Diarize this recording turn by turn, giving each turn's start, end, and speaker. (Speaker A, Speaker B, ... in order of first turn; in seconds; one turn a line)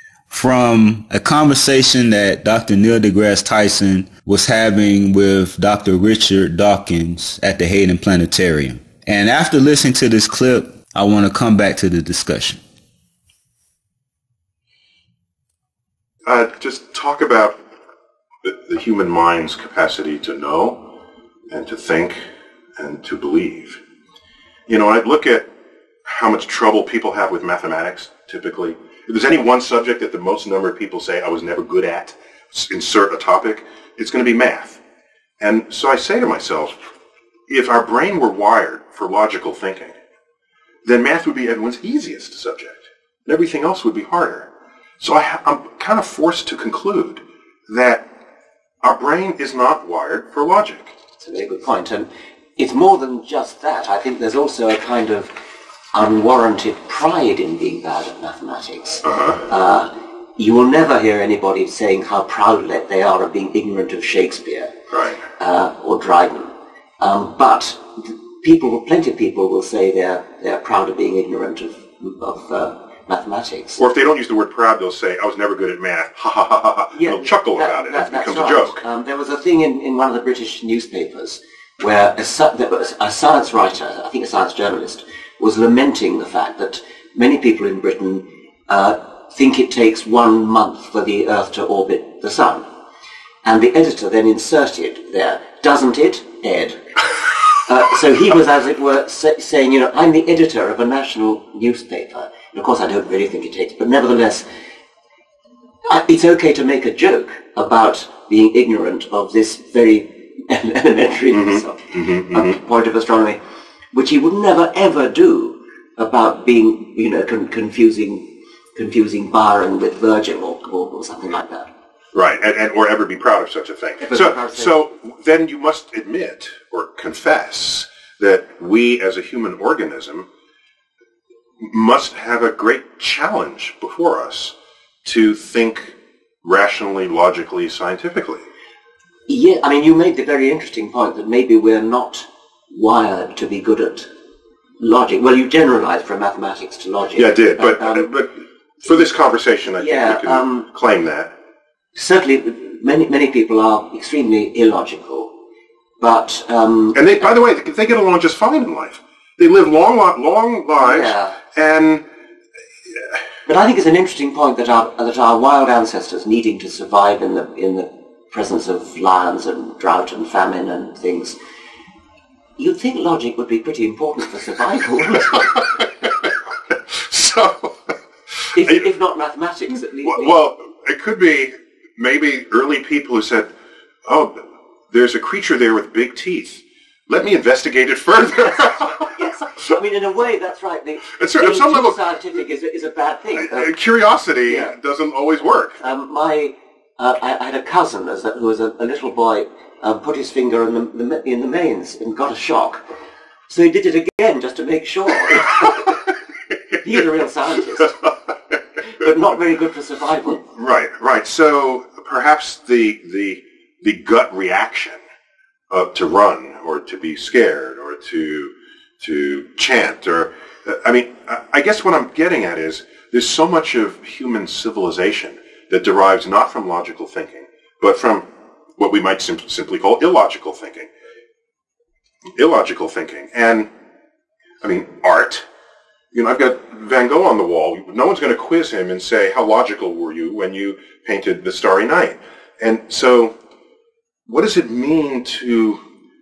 Speaker A: 0.3-12.6
Speaker B: 16.2-17.6
Speaker B: 18.4-20.9
Speaker B: 21.5-22.2
Speaker B: 22.8-23.8
Speaker B: 24.7-25.5
Speaker B: 26.0-34.8
Speaker B: 35.4-36.7
Speaker B: 37.5-40.0
Speaker B: 40.8-44.5
Speaker B: 45.0-48.1
Speaker B: 48.8-50.9
Speaker C: 51.2-55.3
Speaker C: 55.9-64.7
Speaker B: 59.0-59.4
Speaker B: 64.9-65.2
Speaker C: 65.4-73.8
Speaker B: 73.8-78.8
Speaker C: 76.9-92.7
Speaker C: 93.4-104.5
Speaker C: 105.8-113.4
Speaker B: 111.3-112.5
Speaker C: 113.9-121.7
Speaker B: 122.1-130.3
Speaker C: 124.0-124.8
Speaker B: 131.6-138.4
Speaker C: 139.3-144.1
Speaker C: 144.8-148.1
Speaker B: 147.2-151.3
Speaker C: 149.8-150.7
Speaker C: 151.9-155.3
Speaker C: 156.0-157.3
Speaker B: 156.9-162.0
Speaker C: 160.8-161.4
Speaker C: 163.4-171.4
Speaker C: 172.6-175.6
Speaker B: 175.1-177.9
Speaker C: 178.5-180.4
Speaker B: 178.6-178.8
Speaker B: 180.0-183.5
Speaker B: 184.1-189.1
Speaker C: 189.1-193.8
Speaker B: 191.1-192.0
Speaker B: 193.4-195.8
Speaker C: 194.4-194.7
Speaker C: 195.8-202.8
Speaker C: 203.5-205.9
Speaker B: 205.4-205.8
Speaker C: 206.8-208.0
Speaker C: 208.9-210.4
Speaker B: 210.4-215.0
Speaker B: 215.7-230.9
Speaker B: 232.3-233.7
Speaker B: 234.6-235.4
Speaker B: 236.1-243.3
Speaker B: 244.3-245.8